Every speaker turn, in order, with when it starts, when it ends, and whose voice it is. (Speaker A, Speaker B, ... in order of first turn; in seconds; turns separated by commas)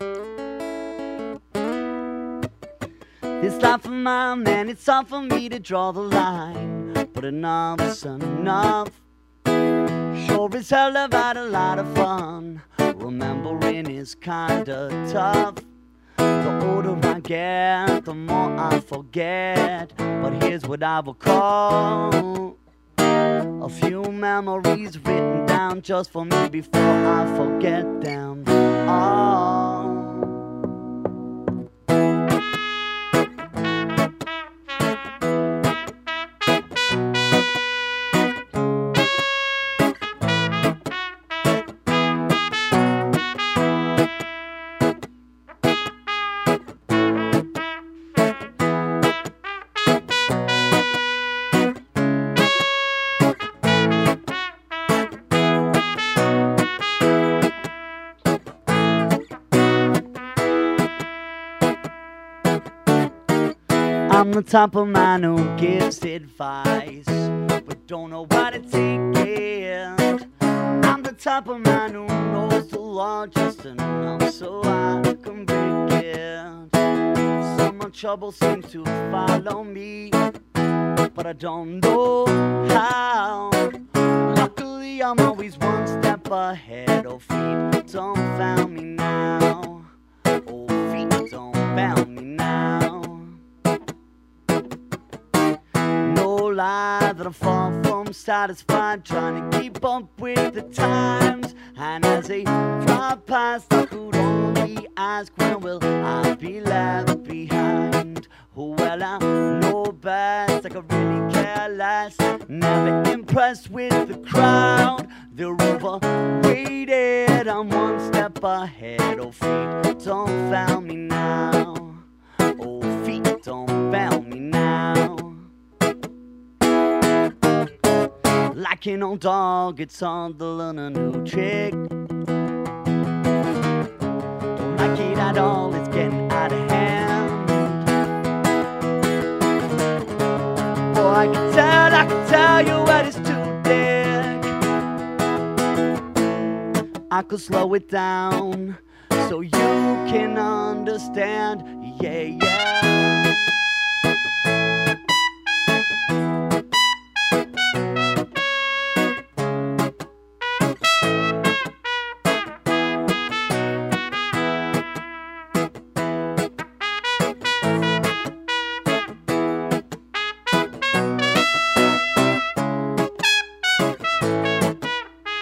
Speaker A: 3.4-9.0, Speaker A: 10.1-15.7, Speaker A: 16.4-22.6, Speaker A: 23.6-30.3, Speaker A: 64.1-70.2, Speaker A: 70.8-76.8, Speaker A: 77.4-80.2, Speaker A: 81.1-83.7, Speaker A: 84.3-89.9, Speaker A: 90.4-93.4, Speaker A: 96.0-122.0, Speaker A: 122.6-125.5, Speaker A: 128.5-131.8, Speaker A: 134.6-137.9, Speaker A: 140.9-144.5, Speaker A: 147.1-153.3